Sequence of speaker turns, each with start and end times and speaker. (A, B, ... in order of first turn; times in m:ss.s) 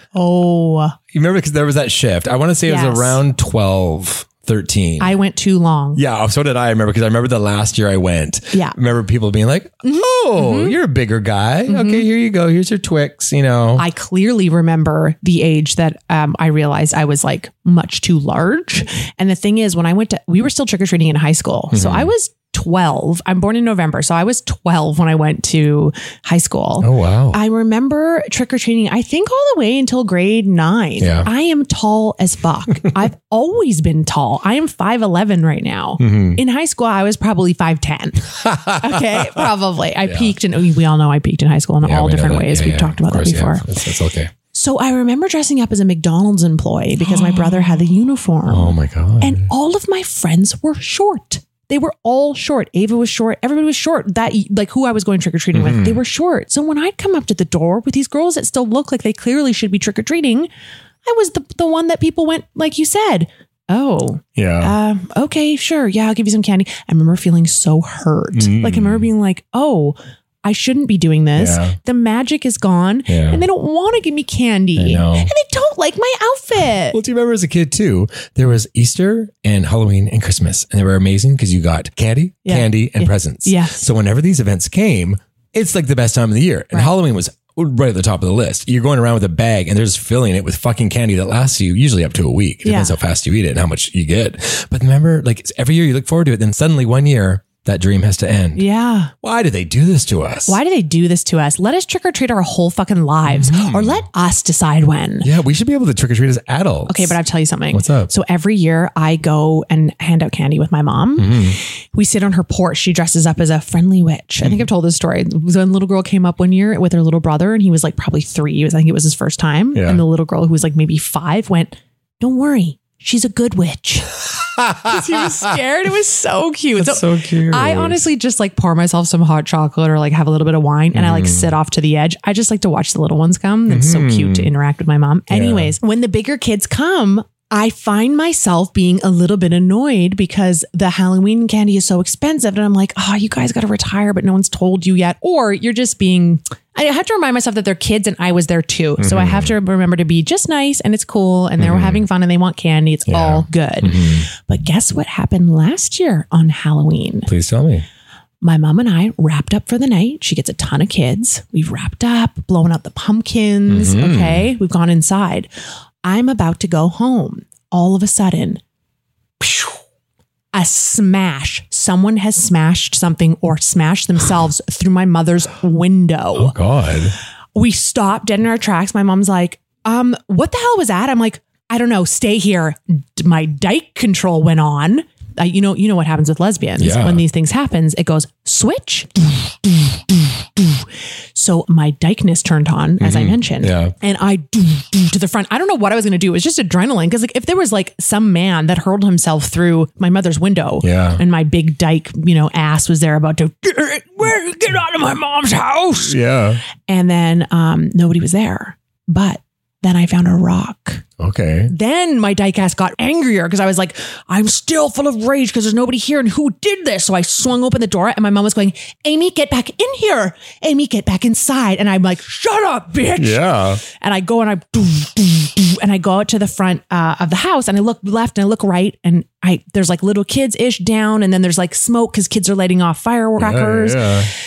0:00.1-0:01.0 A
0:01.1-0:05.2 B
0:02.6-0:03.2 A
0:05.0-0:06.0 A
0:05.9-0:13.8 B
0:09.8-0:10.7 A
0:11.7-0:12.0 A
0:13.8-0:43.6 A
0:21.7-0:22.1 B
0:26.8-0:27.4 B
0:31.0-0:31.3 B
0:36.0-0:36.4 B
0:38.4-0:39.3 B
0:40.0-0:40.3 B
0:41.8-0:44.3 B
0:44.5-1:00.5 A
0:47.0-0:47.8 B
0:48.4-0:49.5 B
0:55.5-0:56.0 B
1:01.0-1:17.0 A
1:04.4-1:04.7 B
1:08.3-1:09.1 B
1:11.4-1:11.8 B
1:13.1-1:13.4 B
1:14.8-1:15.3 B
1:16.9-1:38.6 B
1:22.4-1:23.9 A
1:32.6-1:33.0 A
1:38.5-1:39.1 A
1:39.2-1:40.6 B
1:40.5-1:45.3 A
1:43.2-1:44.0 B
1:45.2-1:47.2 B
1:46.9-2:04.2 A
1:47.7-1:48.1 B
1:51.2-1:51.6 B
1:59.7-2:00.0 B
2:04.6-2:05.2 B
2:04.8-2:37.3 A
2:06.8-2:08.0 B
2:10.9-2:11.5 B
2:13.7-2:14.5 B
2:15.3-2:15.7 B
2:29.0-2:29.5 B
2:31.6-2:32.0 B
2:33.1-2:34.3 B
2:37.3-2:37.8 B
2:38.4-2:45.5 A
2:43.7-2:44.5 B
2:46.0-2:48.6 A
2:50.5-2:56.5 A
2:56.3-2:57.2 B
2:57.5-3:26.2 A
3:06.8-3:07.2 B
3:13.0-3:13.9 B
3:20.8-3:21.2 B
3:26.0-3:26.6 B
3:26.9-3:31.0 A
3:31.2-3:31.7 B
3:31.7-3:54.1 A
3:43.2-3:43.8 B
3:53.4-3:54.3 B